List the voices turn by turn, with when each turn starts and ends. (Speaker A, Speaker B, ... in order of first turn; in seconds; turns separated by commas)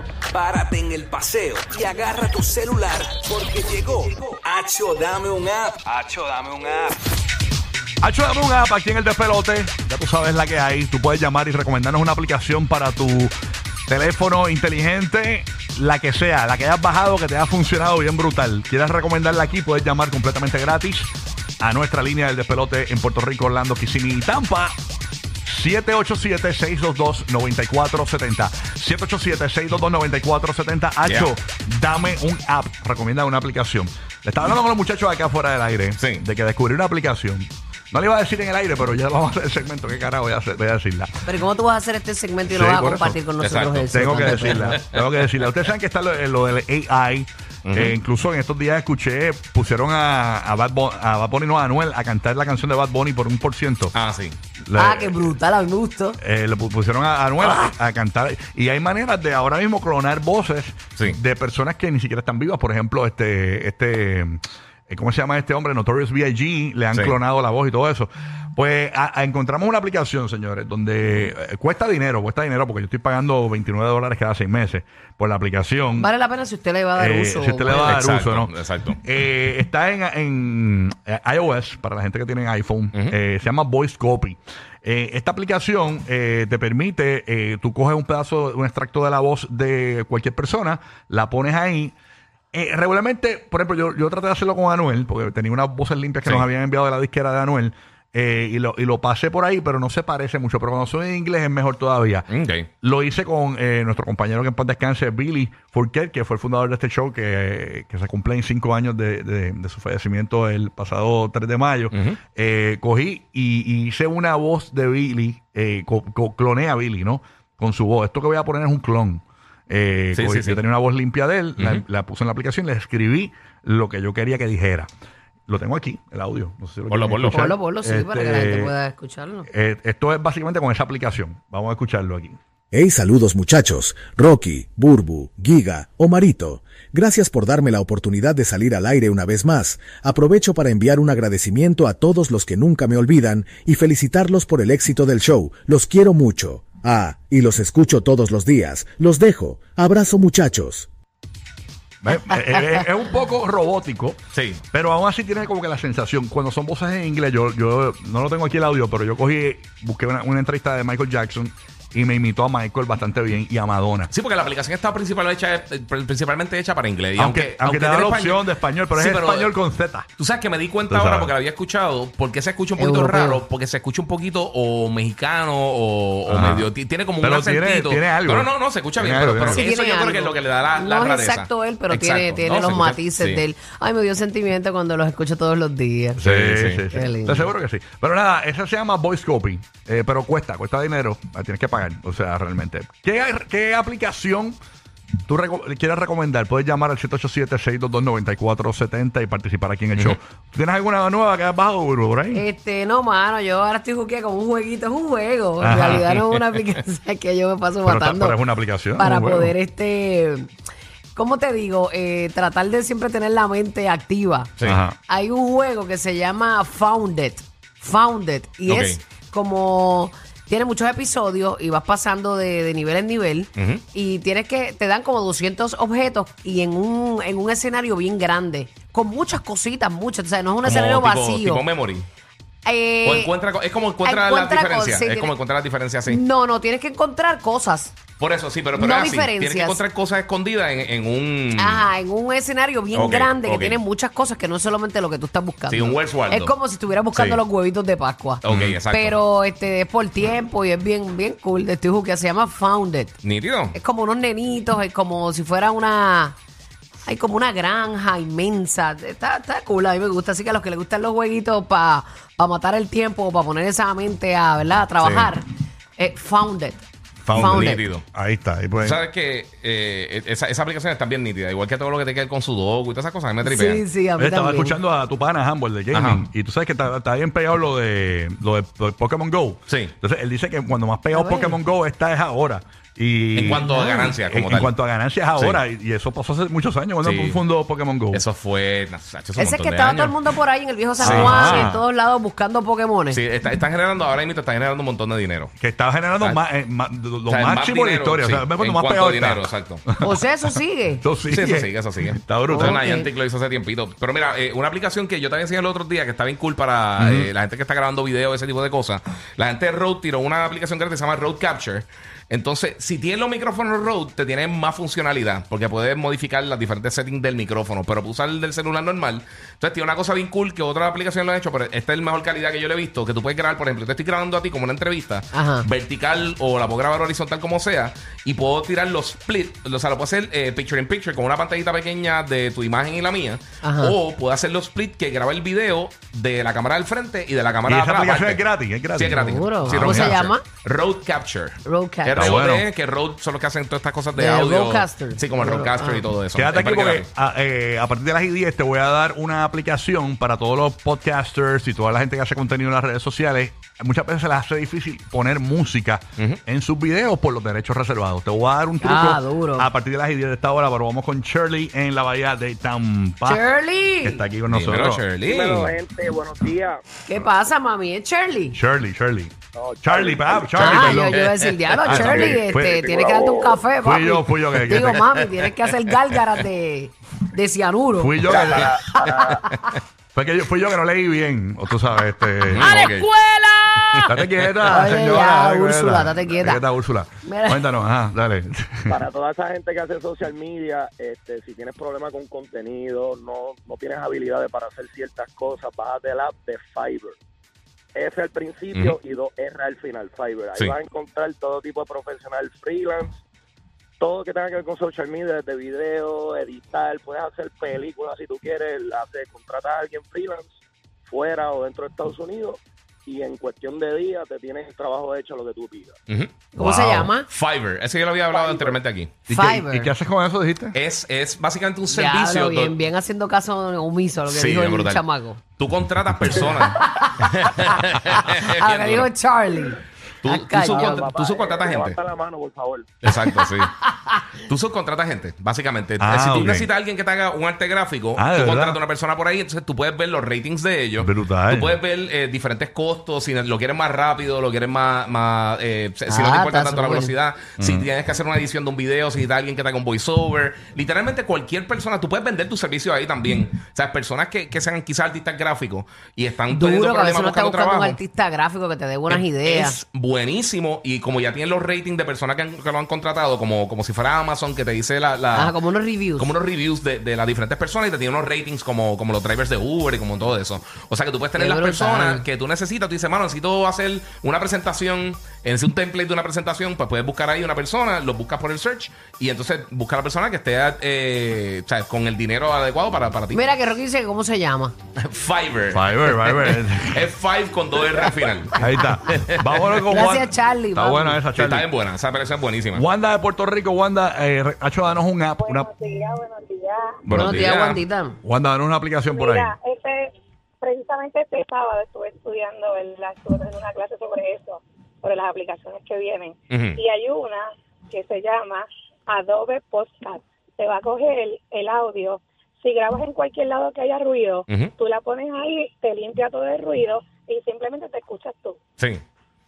Speaker A: 0.3-7.0, Speaker B: 8.0-13.3, Speaker B: 13.9-21.1, Speaker B: 21.6-24.8, Speaker B: 25.4-41.1, Speaker C: 31.0-31.3, Speaker C: 36.0-36.2, Speaker D: 41.2-44.8, Speaker B: 42.5-43.2, Speaker C: 43.4-44.7, Speaker B: 43.9-53.9, Speaker C: 47.6-47.9, Speaker C: 53.9-54.4, Speaker B: 54.6-55.3, Speaker D: 54.8-56.2, Speaker B: 56.2-76.1, Speaker D: 76.0-78.0, Speaker B: 77.0-78.5, Speaker C: 77.8-79.0, Speaker B: 79.0-91.9, Speaker B: 92.5-102.3, Speaker C: 102.3-102.7, Speaker B: 102.8-124.9, Speaker C: 111.9-112.2, Speaker C: 120.1-120.6, Speaker C: 121.6-121.8, Speaker B: 125.5-128.7, Speaker C: 126.9-127.5, Speaker D: 127.3-129.5, Speaker B: 129.5-132.4, Speaker E: 132.7-150.9, Speaker B: 152.0-154.2, Speaker C: 154.3-154.6, Speaker B: 154.7-164.1, Speaker C: 164.1-169.5, Speaker B: 167.2-170.1, Speaker C: 170.2-183.4, Speaker B: 170.9-171.3, Speaker D: 172.8-173.4, Speaker B: 176.3-179.6, Speaker D: 179.5-186.2, Speaker B: 186.2-194.6, Speaker C: 186.2-186.8, Speaker D: 186.9-187.5, Speaker B: 195.2-202.4, Speaker D: 202.3-208.4, Speaker B: 205.6-206.1, Speaker B: 207.8-209.5, Speaker D: 208.9-210.5, Speaker D: 211.1-214.5, Speaker C: 214.6-214.8, Speaker B: 214.6-215.0, Speaker D: 215.1-231.6, Speaker C: 218.7-219.0, Speaker C: 223.6-223.8, Speaker C: 230.6-232.1, Speaker D: 232.6-233.3, Speaker C: 233.0-236.2, Speaker D: 234.0-235.3, Speaker D: 236.1-238.0, Speaker C: 238.2-241.9, Speaker D: 238.7-239.8, Speaker D: 241.6-253.1, Speaker C: 242.9-243.8, Speaker C: 245.7-246.5, Speaker C: 247.1-247.4, Speaker C: 248.4-249.2, Speaker B: 248.5-248.8, Speaker C: 253.2-253.8, Speaker D: 253.7-256.4, Speaker D: 257.0-267.8, Speaker C: 265.0-265.3, Speaker B: 267.2-269.0, Speaker C: 267.4-268.1, Speaker C: 268.8-273.8, Speaker D: 273.4-274.8, Speaker B: 274.2-288.2, Speaker C: 275.9-276.2, Speaker C: 279.7-279.9, Speaker D: 281.1-281.6, Speaker C: 283.3-284.7, Speaker D: 283.5-284.1, Speaker C: 285.4-285.6, Speaker C: 287.0-287.4, Speaker C: 288.1-290.1, Speaker D: 289.4-293.2, Speaker C: 291.0-291.7, Speaker B: 291.0-291.8, Speaker C: 293.1-295.5, Speaker B: 295.6-302.8, Speaker C: 297.3-299.8, Speaker D: 300.0-301.0, Speaker C: 301.3-338.4, Speaker D: 302.5-303.1, Speaker B: 307.0-307.3, Speaker D: 325.3-325.6, Speaker D: 333.6-333.9, Speaker B: 337.6-340.2, Speaker C: 338.9-347.1, Speaker D: 339.1-340.4, Speaker D: 341.6-342.4, Speaker B: 342.1-342.7, Speaker D: 344.1-346.1, Speaker B: 346.3-363.4, Speaker D: 358.8-359.7, Speaker D: 363.2-364.2, Speaker B: 364.0-365.0, Speaker C: 364.5-365.8, Speaker F: 365.2-366.8, Speaker D: 367.1-368.6, Speaker B: 368.5-371.2, Speaker F: 369.5-371.0, Speaker D: 370.6-378.4, Speaker C: 371.8-372.4, Speaker B: 371.8-372.9, Speaker F: 372.7-373.6, Speaker B: 373.8-375.2, Speaker B: 378.0-379.4, Speaker F: 378.3-378.8, Speaker C: 379.1-379.7, Speaker B: 380.1-382.7, Speaker C: 382.5-383.1, Speaker D: 382.6-384.0, Speaker C: 383.8-384.8, Speaker B: 384.1-389.0, Speaker D: 384.7-386.6, Speaker D: 387.2-387.6, Speaker F: 388.9-397.2, Speaker F: 397.9-403.2, Speaker F: 404.0-415.9, Speaker C: 416.1-419.1, Speaker D: 416.5-417.3, Speaker F: 418.3-418.8, Speaker D: 419.3-419.9, Speaker B: 419.3-420.8, Speaker C: 420.7-422.8, Speaker D: 421.9-425.4, Speaker C: 424.3-425.0, Speaker C: 425.6-429.1, Speaker D: 426.6-427.4, Speaker D: 428.0-431.1, Speaker C: 430.2-432.0, Speaker F: 430.6-432.9, Speaker C: 433.0-433.8, Speaker D: 433.6-434.2, Speaker C: 434.4-458.0, Speaker B: 436.0-436.7, Speaker B: 438.1-438.8, Speaker B: 441.0-441.8, Speaker D: 446.1-447.1, Speaker B: 447.6-447.9, Speaker D: 456.5-459.8, Speaker C: 459.1-465.6, Speaker D: 465.3-466.3, Speaker C: 466.2-483.4, Speaker D: 471.4-472.2, Speaker D: 483.3-484.7, Speaker C: 485.0-489.8, Speaker B: 485.7-487.1, Speaker B: 488.5-491.7, Speaker D: 489.9-491.2, Speaker C: 491.3-492.8, Speaker B: 492.7-495.7, Speaker G: 495.4-497.0, Speaker C: 497.1-497.8, Speaker D: 497.1-498.2, Speaker B: 498.2-499.5, Speaker G: 499.1-518.6, Speaker C: 506.5-506.8